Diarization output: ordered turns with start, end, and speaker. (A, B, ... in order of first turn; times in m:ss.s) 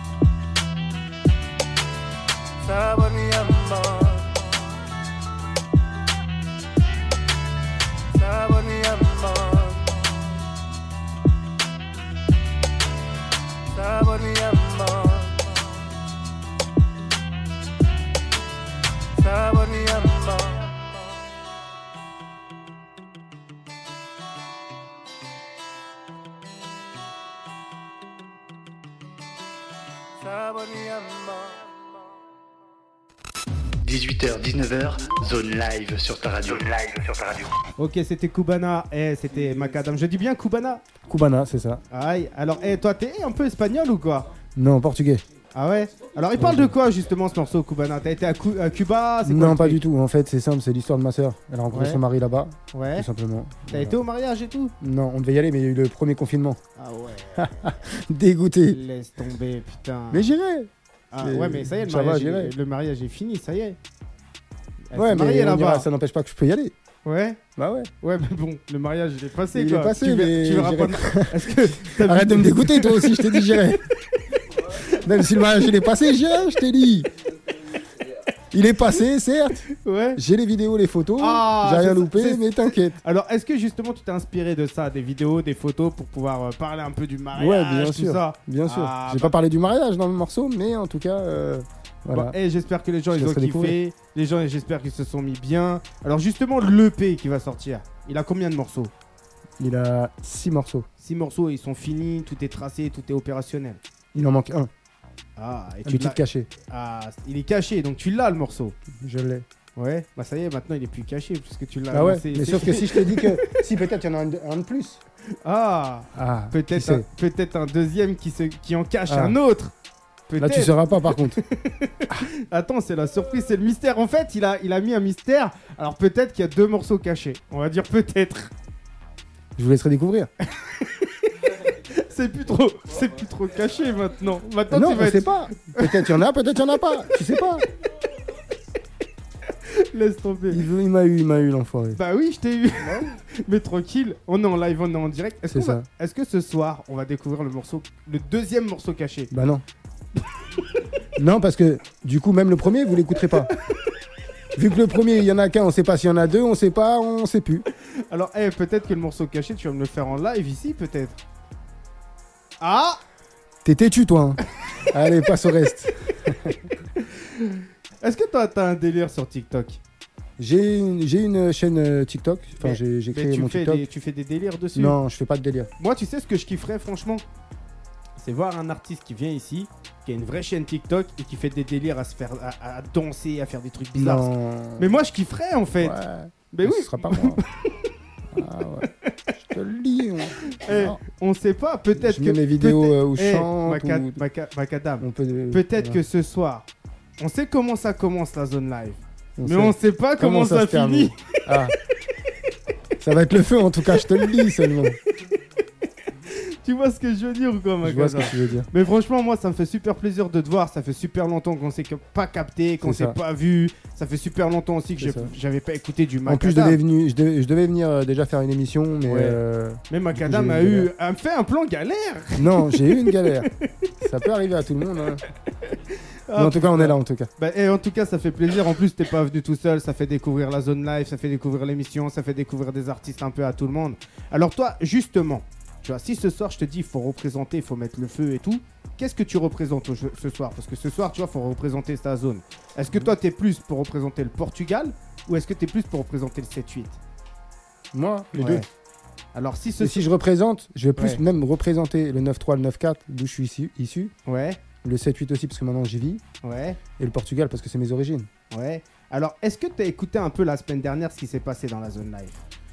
0:02.6-0:04.4 A
0:08.1-0:09.9 A
0:13.7-0:15.5 A
0:19.2-0:20.9 A
0:30.2-0:31.8 A
0:33.8-0:36.8 B
0:37.8-0:40.8 C
0:41.1-0:41.8 D
0:41.9-0:44.3 C
0:44.5-0:45.2 D
0:45.5-0:49.8 C
0:46.3-0:46.7 D
0:49.2-0:54.0 D
0:51.7-0:52.0 C
0:52.7-0:53.1 C
0:53.7-0:54.7 C
0:54.8-0:56.6 D
0:56.8-0:57.7 C
0:57.4-0:58.8 D
0:58.7-1:00.3 C
1:00.1-1:00.7 D
1:01.1-1:03.8 C
1:01.2-1:02.5 D
1:04.9-1:05.8 C
1:04.9-1:06.7 D
1:07.0-1:07.4 C
1:07.6-1:07.9 D
1:08.0-1:13.7 C
1:09.5-1:13.8 D
1:14.8-1:17.1 D
1:18.5-1:23.0 D
1:19.8-1:20.2 C
1:21.2-1:29.3 C
1:27.3-1:32.4 D
1:32.1-1:38.9 C
1:33.1-1:33.8 D
1:39.6-1:40.8 D
1:41.0-1:43.8 C
1:44.1-1:44.7 D
1:45.4-1:48.8 C
1:45.8-1:46.5 D
1:48.9-1:49.4 D
1:49.8-1:53.6 C
1:51.9-1:55.0 D
1:55.4-1:59.7 C
1:56.1-1:57.0 D
1:59.0-1:59.4 D
2:00.3-2:08.5 C
2:00.4-2:01.4 D
2:09.6-2:10.3 D
2:10.6-2:11.1 C
2:11.9-2:16.1 C
2:14.7-2:17.6 D
2:19.6-2:20.6 C
2:20.5-2:22.0 D
2:21.9-2:29.3 C
2:22.8-2:23.2 D
2:25.5-2:25.8 D
2:29.3-2:29.6 D
2:31.2-2:33.5 D
2:34.5-2:37.6 D
2:38.1-2:41.2 C
2:42.6-2:43.0 C
2:43.6-2:46.6 D
2:47.0-2:49.8 C
2:50.4-2:53.9 D
2:52.6-2:55.0 C
2:54.7-2:55.7 D
2:55.8-2:57.2 C
2:58.2-3:04.3 C
3:03.9-3:05.0 D
3:04.8-3:06.0 C
3:05.8-3:07.4 D
3:06.5-3:07.7 C
3:08.3-3:11.0 D
3:10.5-3:16.7 C
3:11.9-3:14.2 D
3:15.0-3:16.0 D
3:17.2-3:21.2 C
3:19.4-3:21.7 D
3:23.0-3:25.0 D
3:24.0-3:24.3 C
3:26.2-3:36.8 C
3:27.8-3:28.7 D
3:32.8-3:33.2 D
3:35.0-3:35.3 D
3:36.2-3:40.9 D
3:39.0-3:39.4 C
3:39.9-3:43.9 C
3:42.4-3:43.5 D
3:44.0-3:45.2 D
3:46.3-4:07.0 C
3:46.3-3:47.3 D
4:07.9-4:08.6 D
4:08.4-4:08.6 C
4:09.3-4:10.0 C
4:09.8-4:14.1 D
4:14.2-4:14.6 C
4:14.8-4:16.2 D
4:16.4-4:16.8 C
4:17.0-4:18.3 D
4:18.5-4:22.4 C